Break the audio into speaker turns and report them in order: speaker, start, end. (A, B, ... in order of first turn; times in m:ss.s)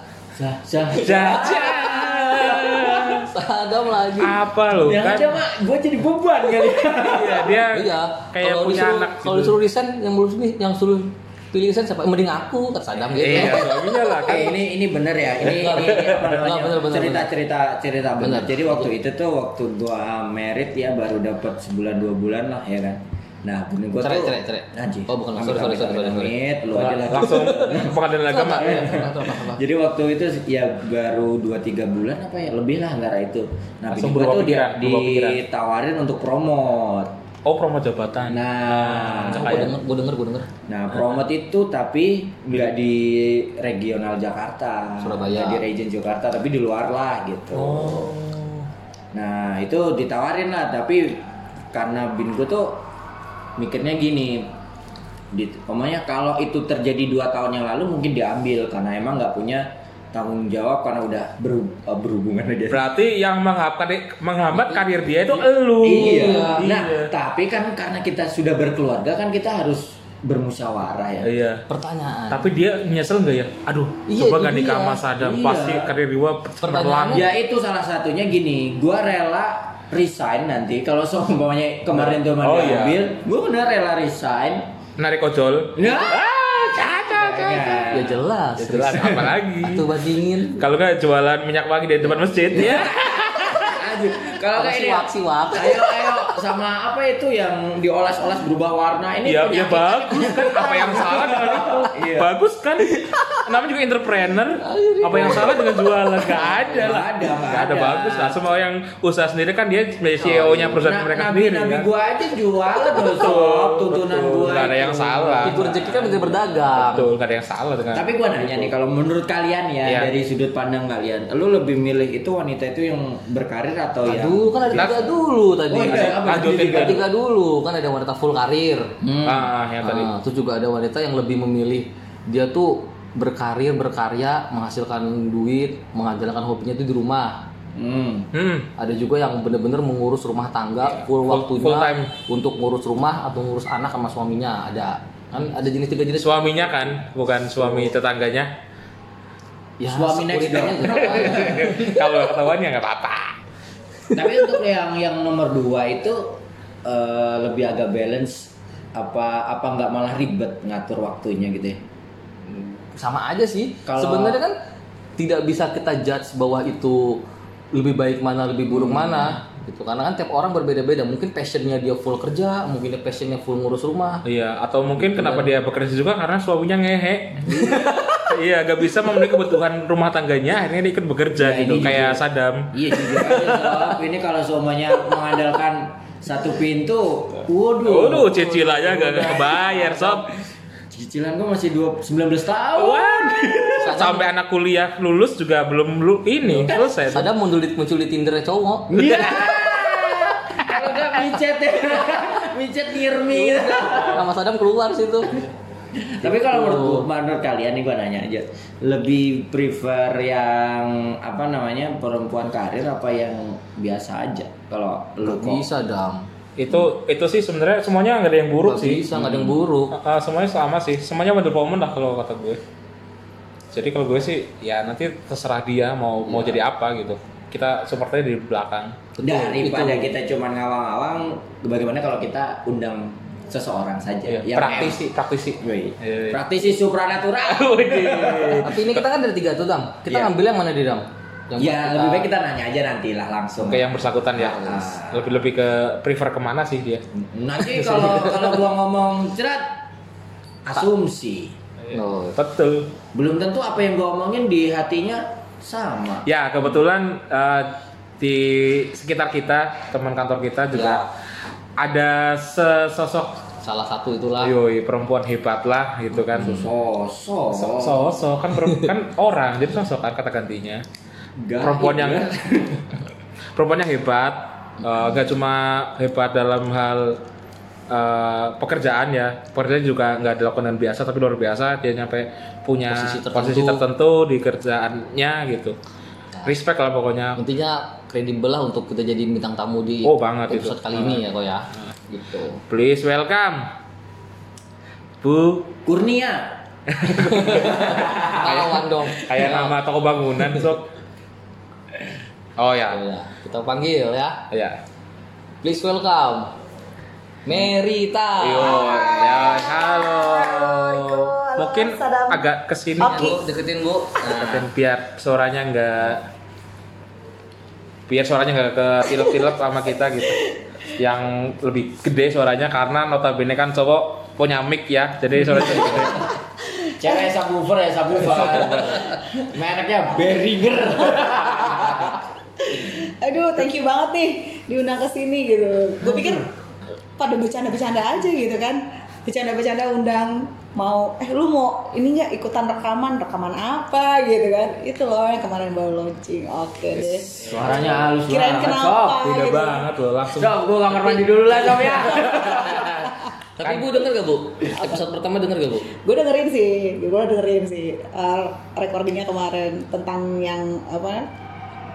0:00.3-0:02.8 A
0:00.9-0:03.2 B
0:02.9-0:04.4 C
0:04.2-0:05.4 B
0:04.8-0:07.6 A
0:07.0-0:09.6 B
0:07.7-0:14.4 C
0:13.2-0:14.6 B
0:13.3-0:13.7 A
0:14.2-0:28.0 A
0:15.4-0:17.3 C
0:18.2-0:18.9 C
0:24.0-0:26.4 C
0:26.7-0:29.1 B
0:27.3-0:29.6 C
0:28.6-0:37.1 A
0:33.9-0:35.4 B
0:37.4-0:39.8 B
0:38.3-0:39.8 A
0:39.2-0:40.5 C
0:40.7-0:48.1 A
0:45.0-0:45.6 C
0:47.5-0:48.7 B
0:49.1-0:52.8 A
0:53.6-0:54.5 A
0:55.3-1:02.8 A
1:02.7-1:07.1 B
1:04.5-1:04.8 C
1:05.3-1:11.3 A
1:05.9-1:06.7 C
1:11.2-1:11.6 B
1:11.7-1:12.4 C
1:12.3-1:17.3 B
1:14.1-1:15.0 C
1:15.2-1:15.9 A
1:16.6-1:17.3 C
1:17.1-1:24.7 A
1:21.9-1:23.1 B
1:25.0-1:27.9 B
1:25.8-1:26.2 A
1:26.7-1:28.3 A
1:27.9-1:30.6 C
1:28.6-1:29.9 B
1:30.6-1:33.9 B
1:32.4-1:32.9 C
1:32.5-1:42.3 A
1:34.5-1:36.3 C
1:39.2-1:51.9 B
1:42.9-1:43.3 C
1:44.6-1:46.4 C
1:46.3-1:48.4 A
1:50.2-1:50.7 C
1:50.2-1:56.6 A
1:52.9-1:55.6 B
1:55.4-1:57.1 C
1:56.7-1:58.7 B
1:57.9-2:05.1 A
1:59.8-2:00.1 B
2:04.0-2:08.9 C
2:04.7-2:05.1 B
2:05.7-2:07.0 A
2:05.8-2:07.0 B
2:09.0-2:09.5 A
2:09.2-2:10.1 B
2:09.8-2:17.4 C
2:17.7-2:18.3 A
2:18.3-2:18.7 B
2:18.8-2:26.5 C
2:21.1-2:22.1 B
2:26.2-2:28.5 B
2:29.8-2:32.0 C
2:29.8-2:31.9 A
2:31.0-2:33.4 B
2:34.1-2:41.8 A
2:42.4-2:44.5 C
2:43.8-2:44.4 A
2:45.2-2:54.2 C
2:48.7-2:49.4 A
2:54.2-3:03.6 B
2:55.0-2:55.5 C
2:57.5-2:58.2 C
3:01.4-3:10.3 A
3:07.8-3:10.3 B
3:10.9-3:13.9 A
3:12.8-3:17.3 B
3:13.8-3:14.3 C
3:16.5-3:19.2 C
3:18.9-3:24.2 A
3:19.0-3:19.9 B
3:23.4-3:25.5 C
3:25.9-3:35.7 A
3:26.2-3:27.1 C
3:35.2-3:36.3 C
3:36.6-3:39.4 B
3:38.6-3:39.9 C
3:39.2-3:39.5 A
3:39.9-3:42.6 B
3:43.7-3:49.0 B
3:49.2-3:50.1 C
3:49.2-3:55.0 A
3:54.3-3:56.4 B
3:55.6-3:58.7 A
3:57.4-3:59.0 B
3:58.6-4:02.3 C
4:00.1-4:00.3 A
4:01.6-4:05.3 A
4:03.6-4:07.0 B
4:07.1-4:09.8 A
4:07.6-4:08.3 B
4:10.6-4:11.5 A
4:11.8-4:12.9 B
4:11.9-4:12.4 C
4:13.1-4:16.3 A
4:16.2-4:21.1 B
4:21.8-4:23.4 B
4:23.6-4:24.5 C
4:24.4-4:26.6 B
4:26.3-4:28.1 A
4:27.5-4:30.8 B
4:31.4-4:33.0 A
4:31.6-4:32.3 B
4:33.6-4:37.2 B
4:37.9-4:45.8 B
4:42.9-4:43.8 C
4:46.4-4:47.4 B
4:47.4-4:52.6 C
4:50.0-4:51.2 B
4:52.7-4:53.7 B
4:55.2-4:55.7 B
4:55.8-4:56.6 A
4:56.9-5:00.9 B
4:57.2-4:58.6 A
4:57.2-4:59.7 C
5:02.6-5:03.0 B
5:02.9-5:04.4 C
5:04.5-5:04.8 B
5:05.6-5:06.5 C
5:07.4-5:09.2 C
5:08.4-5:13.3 B
5:08.6-5:12.5 D
5:13.0-5:13.4 D
5:13.0-5:14.7 C
5:14.2-5:16.2 B
5:18.1-5:20.4 B
5:21.0-5:26.3 B
5:26.2-5:27.2 D
5:27.0-5:32.2 A
5:32.6-5:36.5 D
5:37.2-5:47.4 D
5:47.3-5:49.4 A
5:47.4-5:48.1 B
5:48.3-5:49.9 D
5:49.2-5:51.3 B
5:50.3-5:52.9 A
5:51.7-5:52.5 C
5:51.9-5:53.9 B
5:53.6-5:55.9 C
5:56.0-6:01.3 D